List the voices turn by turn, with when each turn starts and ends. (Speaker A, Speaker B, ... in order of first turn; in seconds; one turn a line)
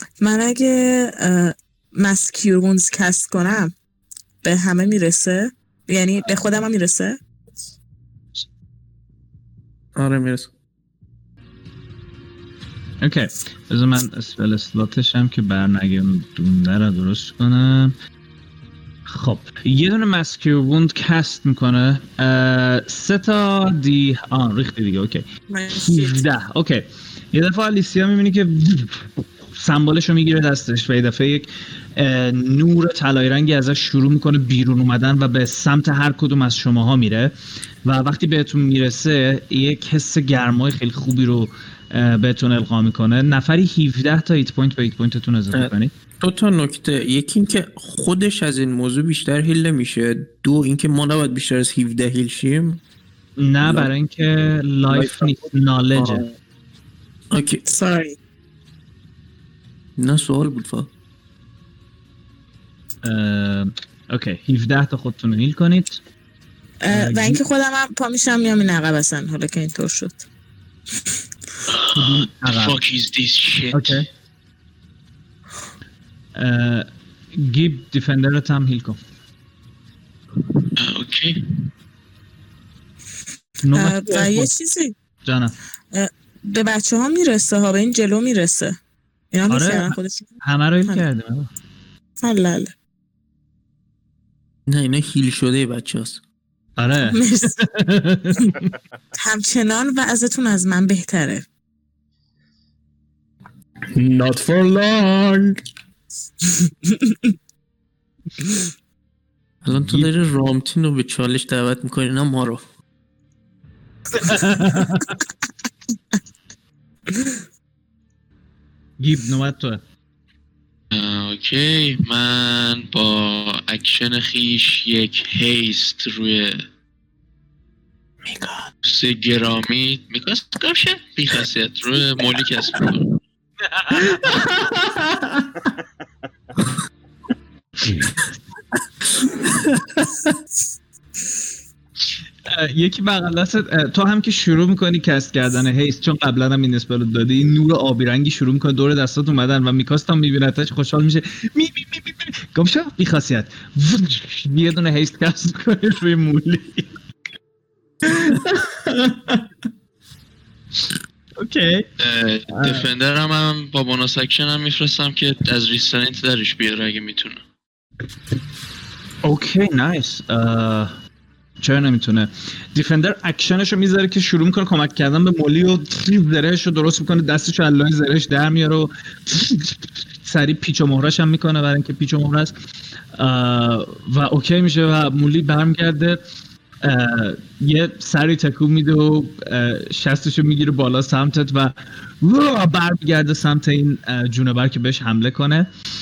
Speaker A: 0.2-3.7
Speaker A: 4.4-7.2
Speaker B: 9.9-10.5
Speaker C: 13.0-17.9
Speaker C: 19.1-25.2
Speaker A: 25.5-26.2
Speaker C: 25.8-37.3
Speaker C: 37.8-45.9
Speaker B: 45.5-52.8
Speaker C: 53.4-56.3
Speaker B: 53.6-53.9
Speaker B: 54.9-55.4
Speaker B: 55.9-56.3
Speaker B: 57.3-57.6
Speaker A: 57.7-58.1
Speaker B: 60.0-60.9
Speaker C: 63.0-66.0
Speaker A: 66.8-70.2
Speaker C: 66.9-67.4
Speaker D: 71.7-74.0
Speaker C: 71.9-72.8
Speaker C: 73.7-74.0
Speaker C: 76.3-79.0
Speaker D: 80.8-81.4
Speaker C: 83.6-84.5
Speaker A: 83.7-84.9
Speaker C: 85.2-85.5
Speaker A: 85.9-88.8
Speaker A: 89.3-90.3
Speaker C: 89.5-91.5
Speaker A: 92.2-92.7
Speaker B: 94.7-96.2
Speaker C: 96.8-98.7
Speaker A: 97.0-97.5
Speaker A: 99.2-101.4
Speaker E: 103.9-105.6
Speaker B: 109.6-112.6
Speaker C: 109.8-110.1
Speaker C: 114.1-115.2
Speaker C: 119.0-119.8
Speaker D: 120.9-126.6
Speaker B: 128.3-128.7
Speaker D: 128.8-133.1
Speaker C: 133.6-134.6
Speaker C: 137.8-138.1
Speaker B: 139.2-140.2
Speaker C: 142.5-156.9
Speaker E: 158.3-159.4
Speaker C: 161.4-161.9
Speaker D: 162.0-167.4
Speaker C: 162.5-162.8
Speaker C: 169.2-170.9
Speaker C: 171.6-182.5
Speaker C: 183.1-186.2
Speaker C: 186.8-195.7